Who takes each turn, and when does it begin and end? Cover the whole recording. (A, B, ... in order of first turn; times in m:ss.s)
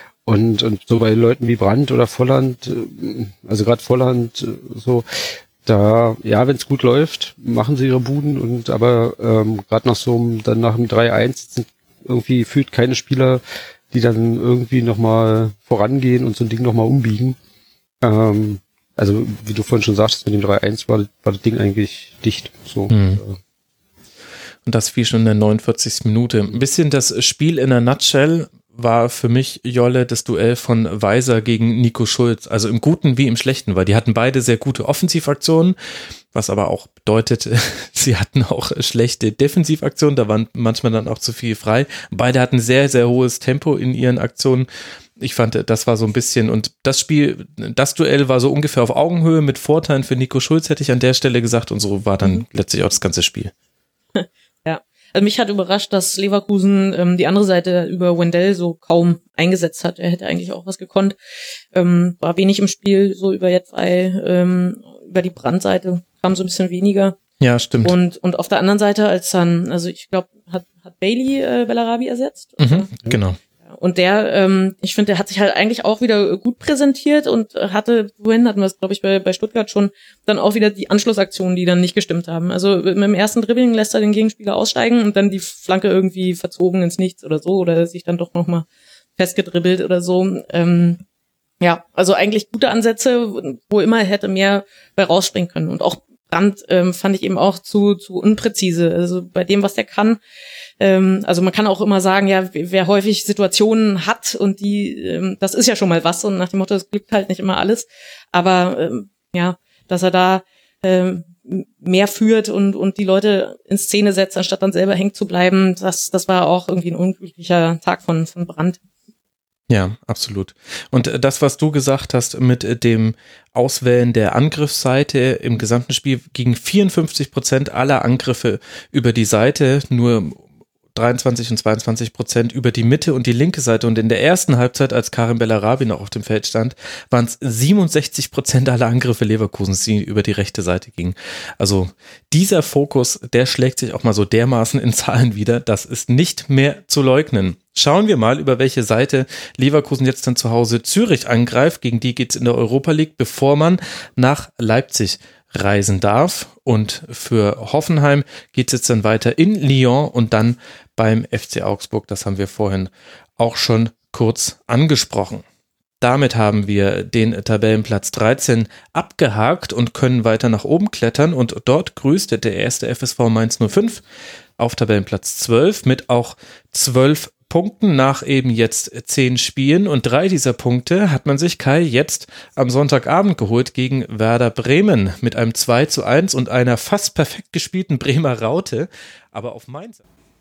0:00.2-0:05.0 A
0:05.6-0:17.4 A
0:18.0-0:23.4 A
0:22.9-0:23.2 B
0:24.6-0:35.8 B
0:36.3-0:44.7 B
0:45.2-0:53.5 B
0:54.1-1:01.2 C
1:01.7-1:07.2 C
1:07.4-1:08.0 B
1:07.8-1:13.0 C
1:12.6-1:13.4 B
1:13.7-1:31.0 C
1:31.6-1:40.2 C
1:40.8-1:58.8 C
1:59.7-2:10.4 B
2:10.9-2:45.4 B
2:46.0-2:54.0 B
2:54.6-3:10.0 B